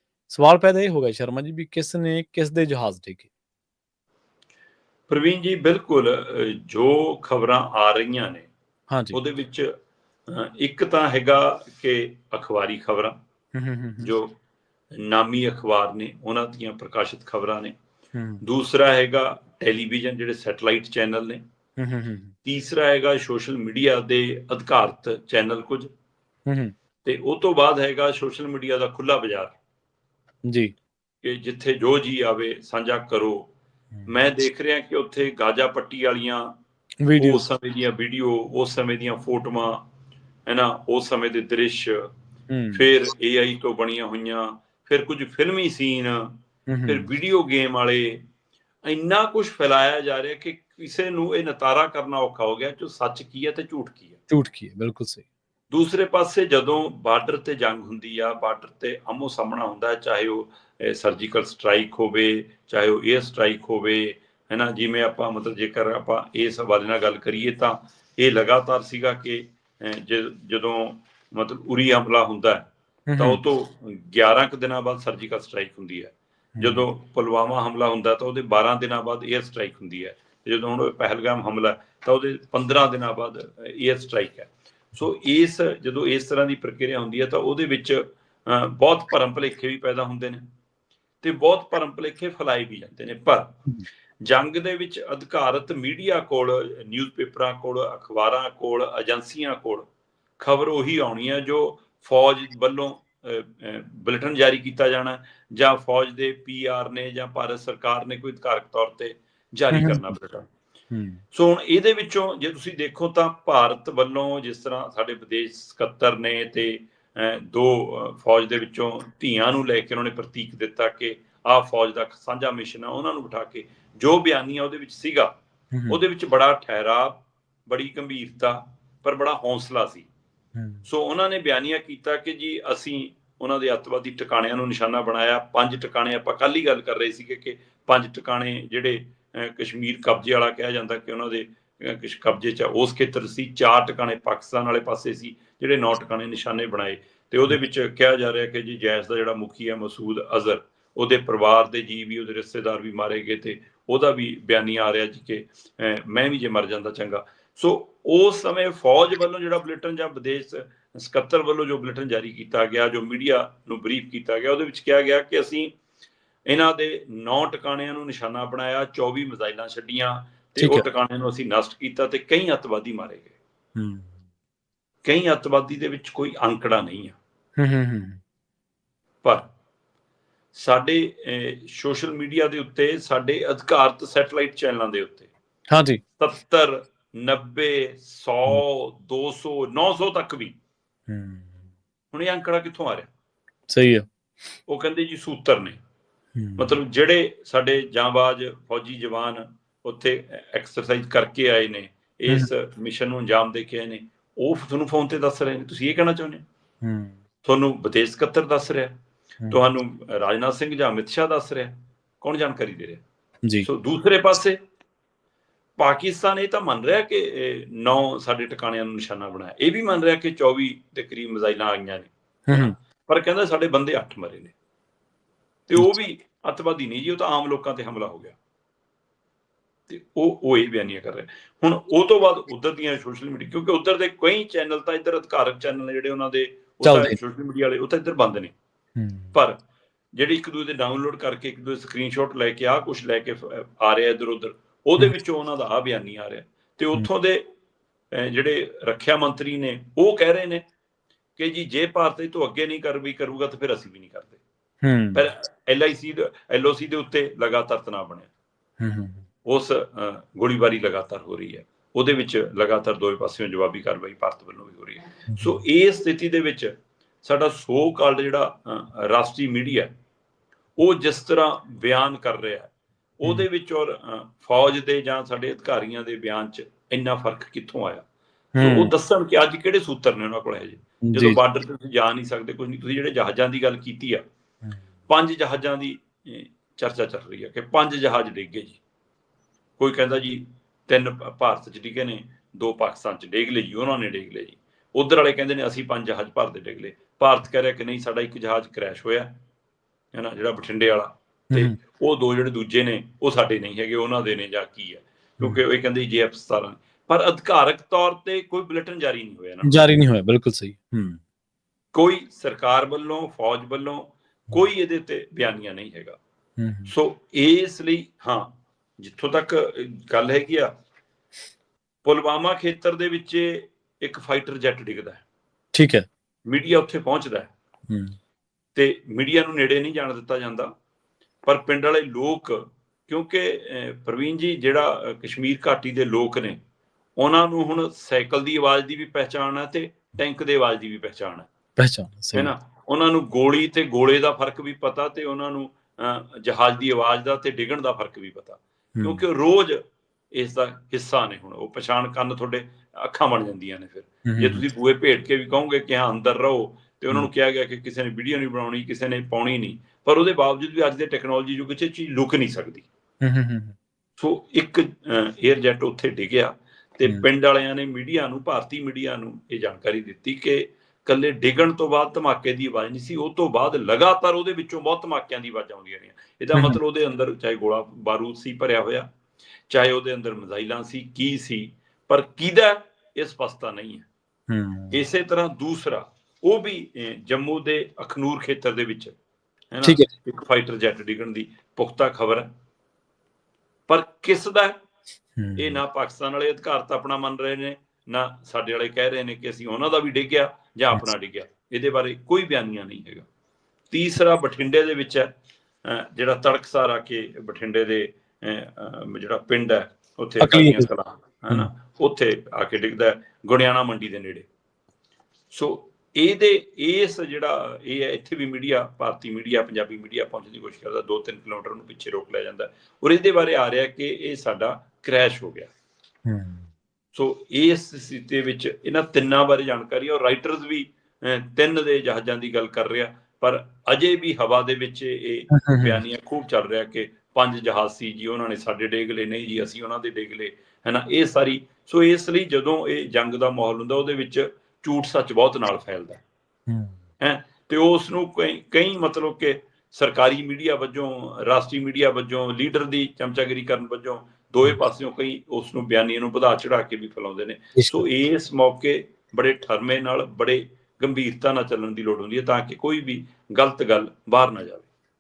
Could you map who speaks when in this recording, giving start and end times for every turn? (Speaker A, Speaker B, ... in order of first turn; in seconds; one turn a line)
Speaker A: 0.3-3.3
Speaker B: 5.1-8.5
Speaker A: 8.9-9.2
Speaker B: 9.1-9.7
Speaker B: 10.3-13.2
Speaker A: 13.6-14.1
Speaker B: 14.0-14.4
Speaker B: 15.0-17.8
Speaker A: 18.1-18.4
Speaker B: 18.4-21.4
Speaker A: 21.8-22.4
Speaker B: 22.4-25.9
Speaker A: 26.5-26.7
Speaker B: 27.0-29.6
Speaker A: 30.5-30.7
Speaker B: 31.2-33.5
Speaker B: 34.1-36.5
Speaker A: 37.0-37.5
Speaker B: 37.2-39.9
Speaker B: 40.5-42.1
Speaker A: 42.5-42.8
Speaker B: 42.7-48.2
Speaker A: 46.7-47.1
Speaker B: 48.9-54.2
Speaker A: 54.3-55.2
Speaker B: 55.7-90.4
Speaker A: 73.1-73.4
Speaker A: 76.6-76.9
Speaker B: 91.2-93.5
Speaker B: 94.2-99.9
Speaker B: 100.4-110.5
Speaker A: 109.7-110.1
Speaker A: 110.9-111.2
Speaker B: 111.3-125.3
Speaker A: 125.7-126.0
Speaker B: 125.9-130.1
Speaker A: 130.6-130.9
Speaker B: 130.9-165.8
Speaker B: 166.5-173.3
Speaker A: 170.6-170.8
Speaker A: 173.8-174.2
Speaker B: 175.1-177.2
Speaker A: 177.6-178.2
Speaker B: 180.6-185.3
Speaker A: 185.7-186.0
Speaker B: 186.2-190.5
Speaker A: 191.1-191.6
Speaker B: 192.1-193.1
Speaker A: 193.7-194.1
Speaker B: 194.7-195.8
Speaker A: 196.4-196.8
Speaker B: 196.6-206.4
Speaker A: 206.8-207.2
Speaker B: 207.4-208.9
Speaker B: 209.5-213.0
Speaker B: 213.6-214.6
Speaker B: 215.8-224.5
Speaker A: 222.5-222.8
Speaker B: 225.7-228.4
Speaker B: 229.9-238.5
Speaker A: 236.8-237.2
Speaker A: 239.0-239.3
Speaker B: 240.2-247.4
Speaker B: 248.1-250.7
Speaker B: 251.4-254.4
Speaker A: 254.8-255.2
Speaker B: 255.2-258.3
Speaker A: 258.8-259.2
Speaker B: 259.5-266.7
Speaker A: 265.3-265.6
Speaker B: 267.2-269.9
Speaker B: 270.8-278.1
Speaker A: 278.6-278.9
Speaker B: 278.6-284.2
Speaker A: 281.1-281.4
Speaker B: 285.1-288.8
Speaker B: 289.8-299.4
Speaker B: 300.1-309.8
Speaker A: 309.6-311.2
Speaker B: 311.9-316.2
Speaker A: 316.6-316.9
Speaker B: 316.9-320.7
Speaker B: 322.1-325.2
Speaker A: 325.8-326.1
Speaker B: 326.5-327.5
Speaker A: 327.9-328.2
Speaker B: 328.8-330.7
Speaker B: 331.5-336.6
Speaker B: 337.2-341.5
Speaker A: 341.8-342.5
Speaker B: 342.3-349.8
Speaker A: 349.0-349.2
Speaker B: 350.3-362.9
Speaker A: 354.2-354.6
Speaker A: 363.2-363.8
Speaker B: 364.2-379.1
Speaker A: 376.6-376.8
Speaker B: 379.7-384.1
Speaker A: 384.5-385.0
Speaker B: 384.9-389.1
Speaker B: 389.7-392.5
Speaker A: 389.8-390.1
Speaker B: 393.9-394.8
Speaker A: 395.4-395.8
Speaker B: 395.6-403.3
Speaker B: 403.9-405.3
Speaker B: 405.9-414.5
Speaker A: 410.4-410.9
Speaker B: 415.5-425.7
Speaker A: 426.3-426.7
Speaker B: 427.1-446.2
Speaker A: 435.5-436.0
Speaker A: 446.7-447.0
Speaker B: 447.2-464.9
Speaker A: 457.8-458.0